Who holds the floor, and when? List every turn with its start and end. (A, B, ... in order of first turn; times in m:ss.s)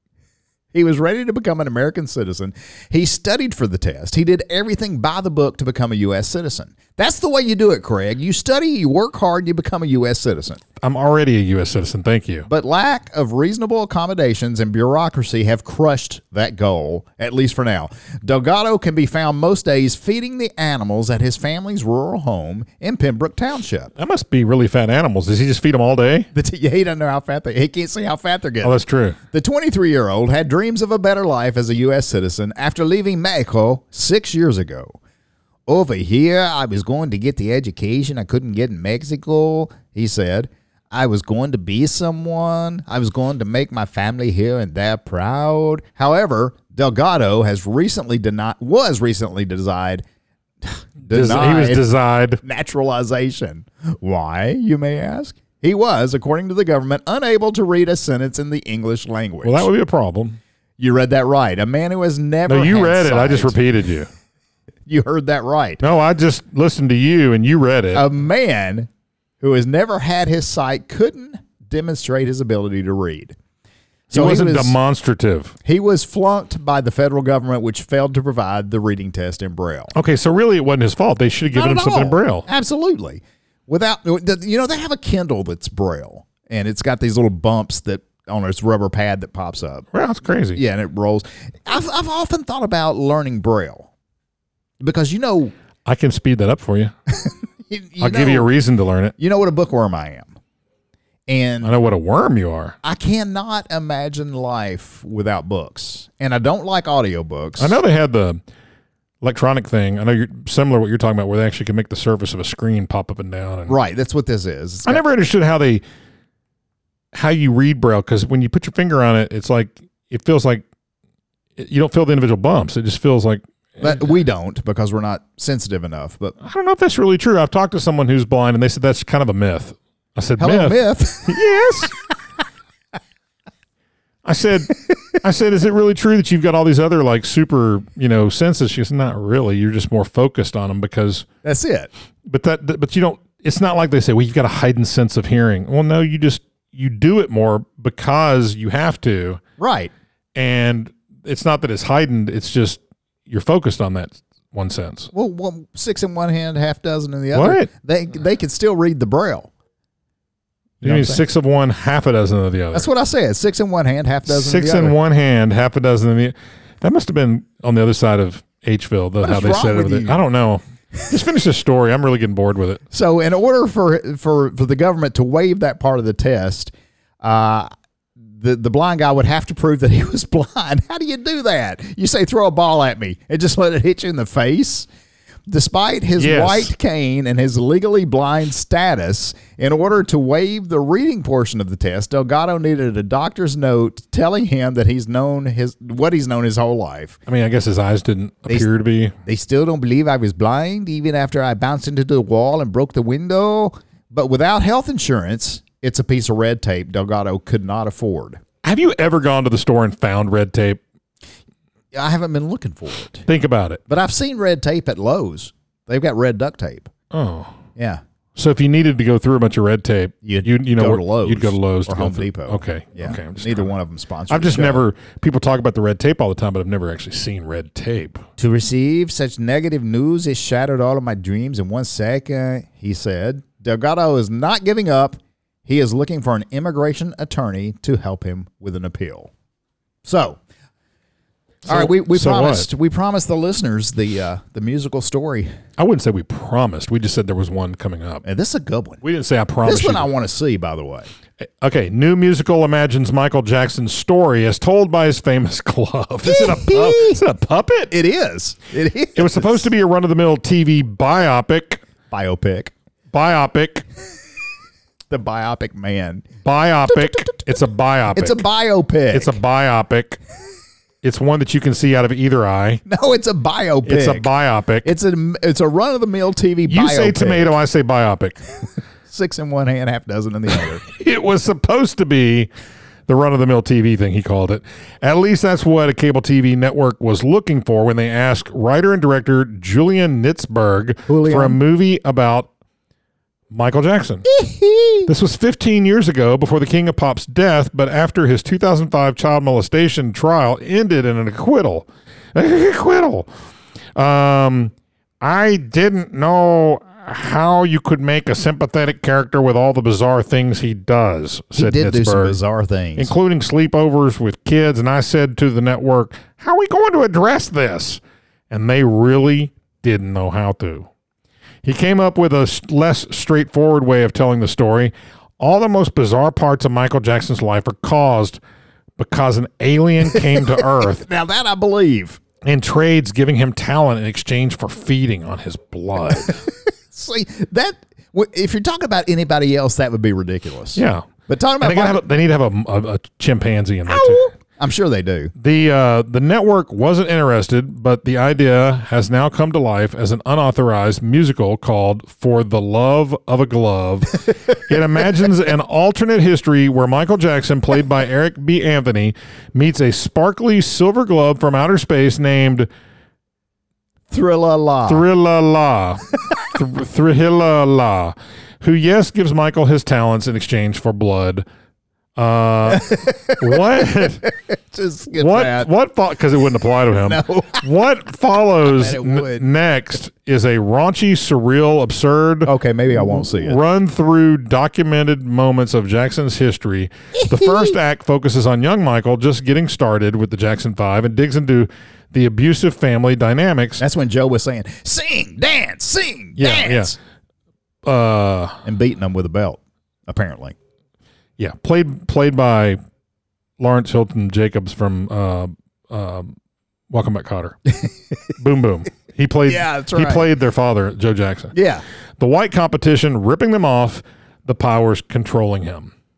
0:00.7-0:10.6 A
0:10.8-0:12.5 B
0:12.5-0:23.9 A
0:24.0-0:26.3 B
0:26.3-0:35.0 A
0:28.6-0:29.2 B
0:35.7-0:50.0 A
0:50.6-0:51.8 A
0:51.1-0:52.4 B
0:52.4-0:59.7 A
0:59.4-1:00.4 B
1:00.8-1:03.6 A
1:02.5-1:04.1 B
1:04.9-1:05.8 A
1:05.8-1:08.1 B
1:07.9-1:08.9 A
1:09.4-1:13.4 A
1:14.1-1:14.8 A
1:14.1-1:15.6 B
1:15.6-1:19.9 A
1:19.9-1:22.5 B
1:21.5-1:29.9 A
1:29.9-1:30.6 B
1:30.6-1:33.9 A
1:34.8-1:35.5 A
1:35.8-1:36.9 B
1:37.1-1:38.5 A
1:38.0-1:39.2 B
1:39.2-1:40.3 A
1:41.3-1:41.7 A
1:41.6-1:42.8 B
1:42.8-1:47.8 A
1:47.6-1:48.4 B
1:49.2-1:53.8 B
1:53.7-1:55.0 A
1:54.9-1:55.8 B
1:57.1-2:00.6 B
2:01.6-2:04.0 B
2:03.8-2:06.4 A
2:06.4-2:11.9 B
2:10.4-2:11.4 A
2:14.2-2:21.3 B
2:21.4-2:21.9 A
2:22.3-2:29.4 B
2:29.6-2:29.9 A
2:30.4-2:35.1 B
2:35.1-2:39.5 A
2:37.3-2:37.7 B
2:40.8-2:41.2 A
2:40.8-2:42.9 B
2:42.7-2:45.0 A
2:44.3-2:52.8 B
2:49.2-2:50.2 A
2:52.9-2:57.7 A
2:58.3-3:04.9 A
3:05.5-3:17.2 A
3:06.2-3:06.7 B
3:17.3-3:19.2 B
3:19.2-3:28.4 A
3:28.6-3:30.8 B
3:31.9-3:33.3 A
3:33.3-3:33.8 B
3:33.9-3:36.9 A
3:37.1-3:37.6 B
3:37.8-3:38.0 A
3:38.4-3:43.7 B
3:40.2-3:44.9 A
3:44.3-3:48.2 B
3:48.4-3:59.3 A
4:00.0-4:00.4 A
4:01.7-4:02.7 B
4:01.7-4:05.5 A
4:05.8-4:08.2 B
4:08.2-4:09.0 A
4:09.0-4:10.1 B
4:09.6-4:11.1 A
4:11.4-4:17.9 B
4:16.3-4:17.2 A
4:17.9-4:19.7 A
4:19.2-4:21.8 B
4:22.1-4:22.7 A
4:23.1-4:23.8 B
4:25.1-4:26.3 A
4:26.4-4:28.4 B
4:26.9-4:27.5 A
4:28.2-4:29.4 A
4:29.1-4:30.2 B
4:31.0-4:32.8 B
4:32.9-4:34.3 A
4:33.9-4:34.9 B
4:34.8-4:37.5 A
4:36.7-4:38.4 B
4:39.1-4:40.8 A
4:40.8-4:42.5 B
4:43.1-4:52.5 B
4:51.1-4:51.6 A
4:53.5-4:54.3 B
4:54.3-4:55.1 A
4:55.0-5:03.3 B
5:04.0-5:12.4 B
5:11.5-5:13.1 A
5:13.0-5:20.9 B
5:21.6-5:28.4 B
5:29.0-5:31.0 B
5:30.1-5:32.2 A
5:32.4-5:36.4 B
5:36.2-5:42.0 A
5:40.8-5:41.1 B
5:41.6-5:44.3 B
5:43.9-5:45.3 A
5:45.4-6:02.7 B
6:04.1-6:05.1 A
6:04.9-6:11.4 B
6:12.2-6:14.2 B
6:12.7-6:15.7 A
6:15.2-6:33.8 B
6:17.0-6:17.7 A
6:18.6-6:19.5 A
6:22.5-6:23.6 A
6:27.2-6:27.8 A
6:33.8-6:37.0 A
6:36.4-6:37.0 B
6:37.8-6:38.6 B
6:38.6-6:40.6 A
6:41.4-6:42.8 B
6:43.6-6:46.4 B
6:46.9-6:47.6 B
6:48.4-6:51.5 B
6:49.5-6:50.3 A
6:51.5-6:51.8 A
6:52.2-6:55.9 B